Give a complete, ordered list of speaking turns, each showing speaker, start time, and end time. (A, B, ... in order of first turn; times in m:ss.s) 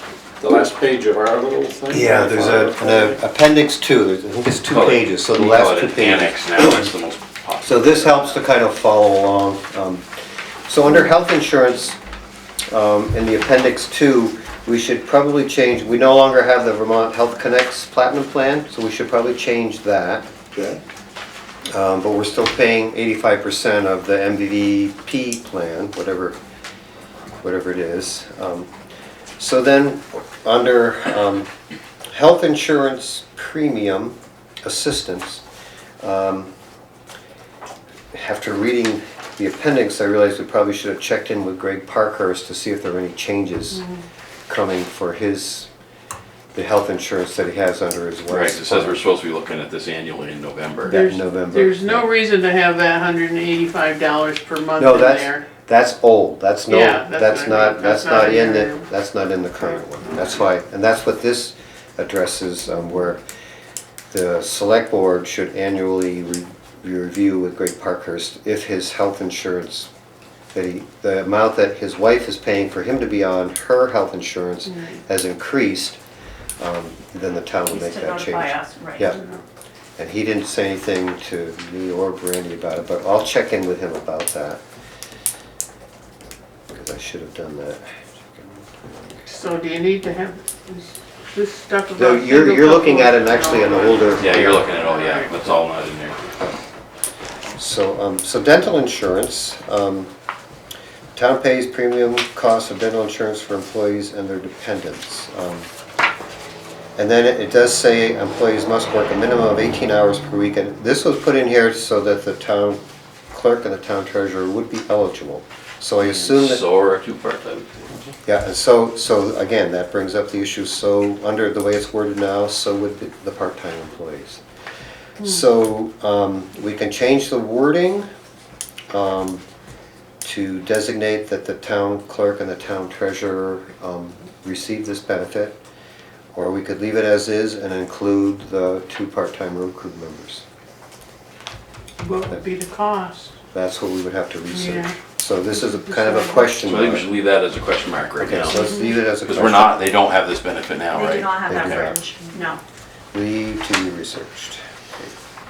0:00.4-0:03.2 A
0:01.9-0:06.9 B
0:04.7-0:08.4 C
0:07.6-0:10.0 B
0:10.7-0:12.0 B
0:12.7-0:20.3 B
0:21.7-0:26.4 B
0:27.4-0:28.7 B
0:29.4-0:31.5 B
0:32.1-0:35.4 B
0:36.0-0:36.5 B
0:38.1-0:43.8 B
0:43.7-0:44.0 D
0:44.5-0:45.7 B
0:46.5-0:49.0 B
0:48.3-0:51.0 C
0:50.8-0:55.5 D
0:51.0-0:52.0 B
0:54.8-1:03.2 B
0:56.7-0:58.9 D
1:04.1-1:09.9 B
1:10.5-1:16.0 B
1:14.6-1:15.0 D
1:16.6-1:19.2 B
1:17.7-1:19.1 E
1:19.1-1:19.4 D
1:20.0-1:24.6 B
1:26.7-1:29.2 B
1:29.2-1:35.4 D
1:32.0-1:34.7 B
1:34.2-1:36.2 C
1:37.6-1:40.1 B
1:41.2-1:45.7 B
1:47.0-1:52.8 B
1:53.3-1:56.6 B
1:56.0-1:58.1 C
1:58.2-2:04.4 B
2:05.2-2:08.1 B
2:08.9-2:09.4 B
2:10.2-2:15.6 B
2:16.3-2:20.4 B
2:22.0-2:23.4 D
2:23.5-2:27.1 B
2:24.5-2:25.0 D
2:25.6-2:26.5 D
2:26.6-2:28.7 C
2:28.2-2:29.8 B
2:28.5-2:28.9 D
2:29.2-2:31.9 C
2:30.9-2:32.6 E
2:31.4-2:32.0 B
2:33.1-2:35.1 B